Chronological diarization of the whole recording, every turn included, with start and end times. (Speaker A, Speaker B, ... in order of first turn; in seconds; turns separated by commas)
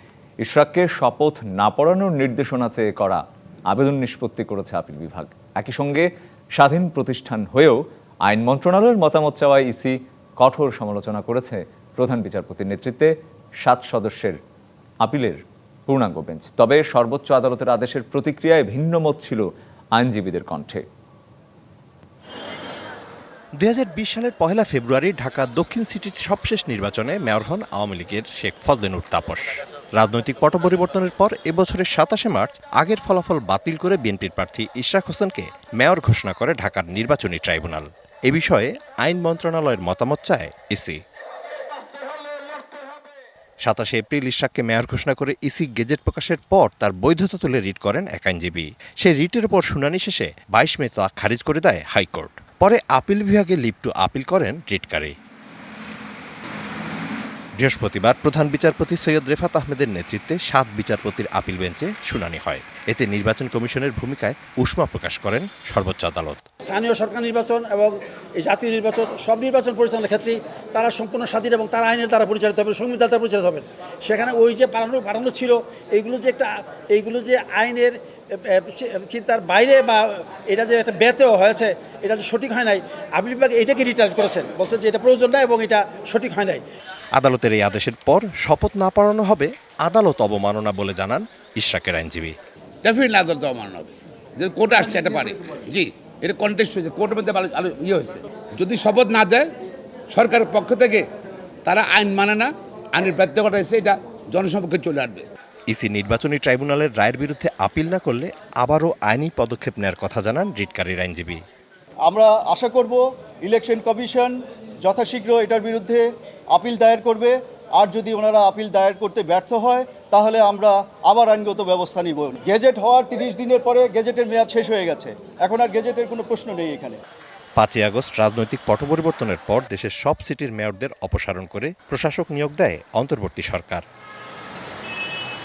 Speaker A: 0.4-14.4, Speaker A: 15.0-20.8, Speaker B: 23.6-41.0, Speaker B: 43.6-55.1, Speaker B: 57.6-66.4, Speaker C: 66.6-86.6, Speaker B: 87.2-92.3, Speaker D: 92.8-99.5, Speaker D: 100.1-101.0, Speaker D: 101.6-105.2, Speaker B: 105.7-111.4, Speaker E: 112.0-127.0, Speaker B: 127.6-133.8